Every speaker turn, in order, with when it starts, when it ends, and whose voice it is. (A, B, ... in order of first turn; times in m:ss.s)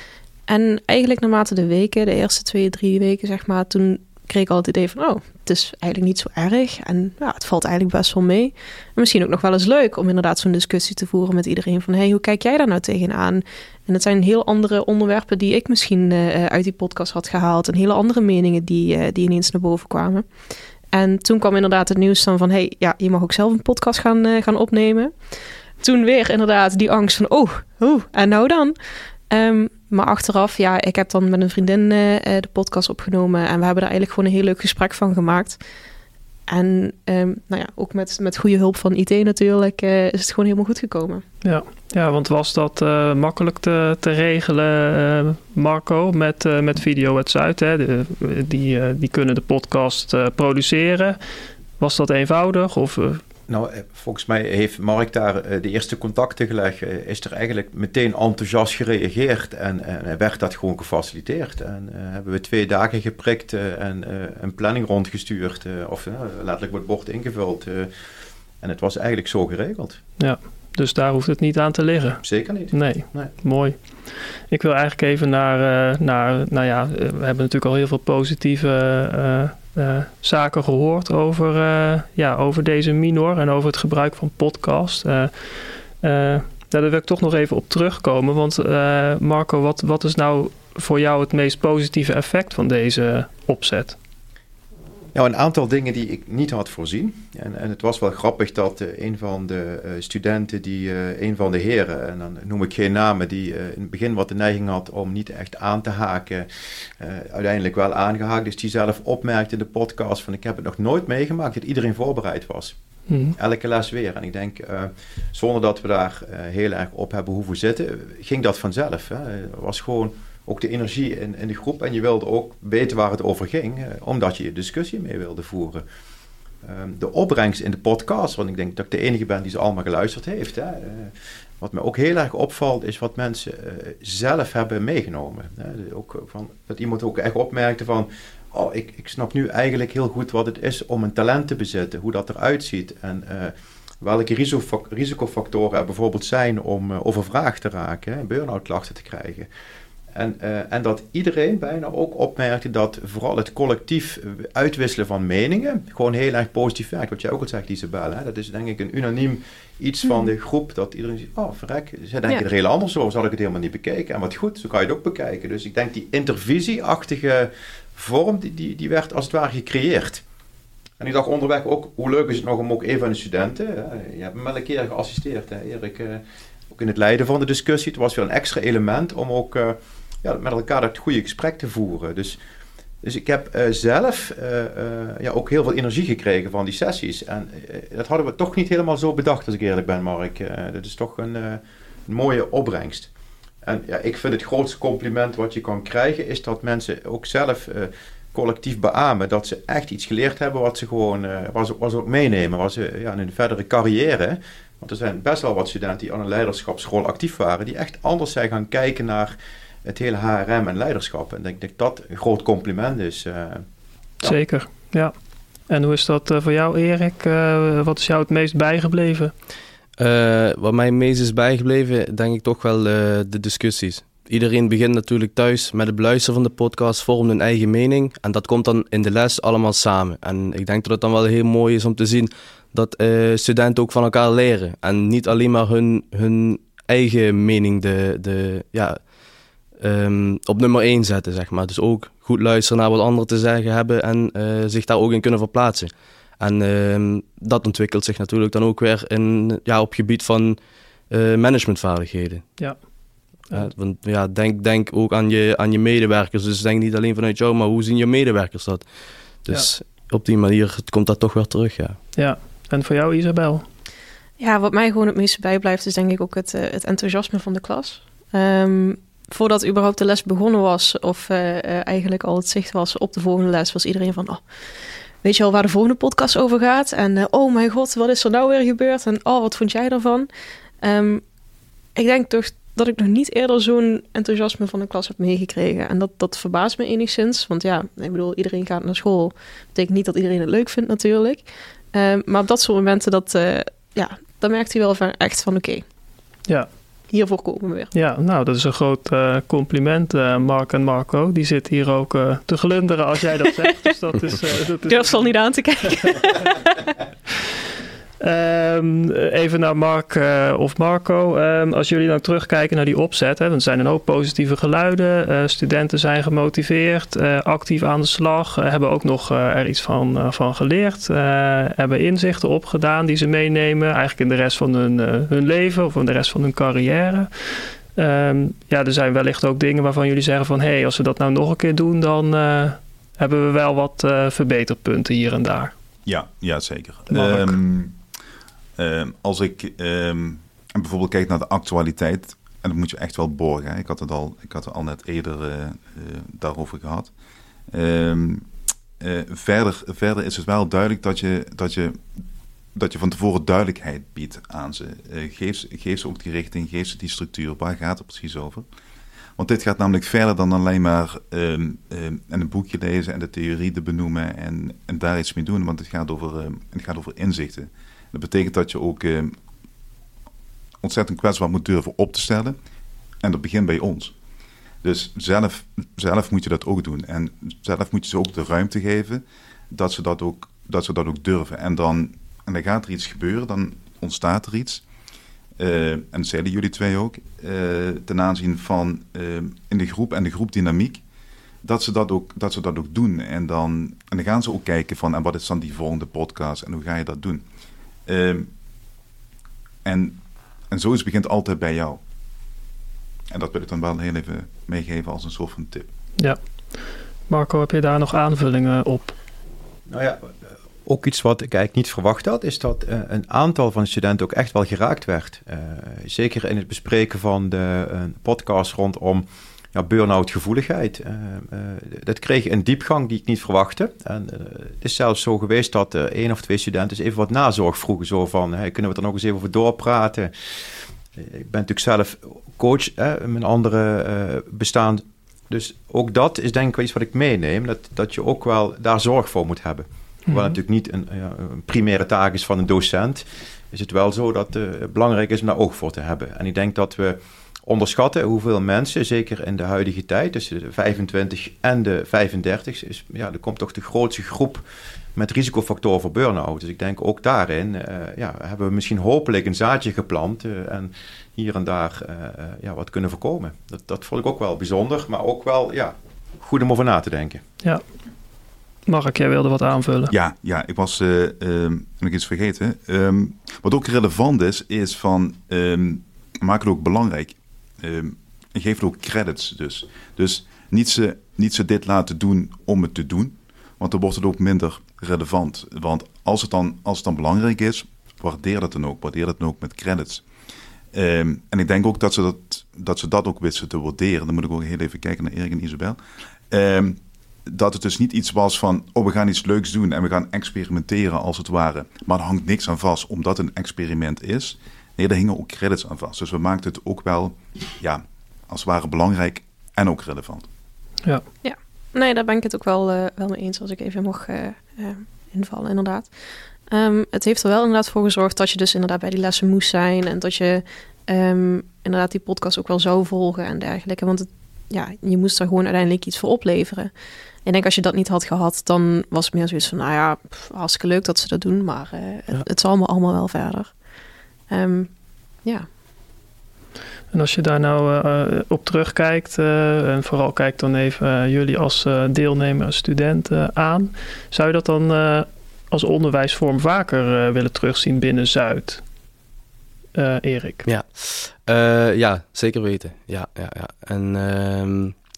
0:00.5-0:20.3 A
0:20.9-0:25.1 A
0:25.8-0:28.8 A
0:29.3-0:35.6 A
0:36.5-0:41.2 A
0:41.4-0:51.2 B
0:51.8-0:53.2 B
0:53.5-1:07.9 C
1:08.6-1:10.0 C
1:10.2-1:13.8 B
1:12.2-1:13.3 C
1:14.5-1:25.3 B
1:26.0-1:34.0 B
1:35.2-1:46.5 C
1:47.0-1:52.8 C
1:53.1-1:53.4 B
1:53.4-2:05.8 C
2:06.6-2:29.5 C
2:30.2-2:50.2 C
2:51.0-3:02.4 C
3:03.0-3:13.1 C
3:13.6-3:33.6 C
3:34.2-3:35.1 B
3:35.7-3:39.3 B
3:40.0-3:59.0 D
3:59.8-4:10.6 D
4:11.1-4:12.5 D
4:13.5-4:18.8 D
4:19.4-4:22.0 D
4:22.2-4:23.6 B
4:24.4-4:34.4 A
4:35.2-4:40.3 A
4:40.8-4:41.2 A
4:42.0-4:55.8 A
4:57.1-4:57.9 A
4:57.9-5:05.3 B
5:04.9-5:06.7 A
5:08.2-5:27.3 B
5:28.0-5:35.7 B
5:36.1-5:38.0 E
5:37.1-5:37.6 B
5:38.8-5:47.1 E
5:47.7-5:48.5 E
5:49.0-5:52.0 E
5:52.8-5:58.6 E
5:59.4-6:09.4 E
6:10.8-6:12.6 E
6:13.2-6:14.1 E
6:14.8-6:24.8 E
6:25.6-6:31.0 E
6:31.6-6:37.4 E
6:38.1-6:38.5 E
6:39.8-6:40.2 E
6:40.7-6:42.0 E
6:43.3-6:45.9 E
6:47.3-6:49.2 B
6:49.9-6:50.3 C
6:50.9-7:10.3 C
7:11.2-7:34.6 C
7:35.2-7:47.4 C
7:48.9-7:50.1 B
7:50.1-8:10.2 E
8:10.9-8:16.0 E
8:16.5-8:30.5 E
8:31.4-8:36.1 A
8:36.7-8:46.9 A
8:47.4-8:53.7 A
8:54.5-8:54.9 A
8:57.1-9:08.8 B
9:10.0-9:10.7 B
9:10.7-9:15.0 D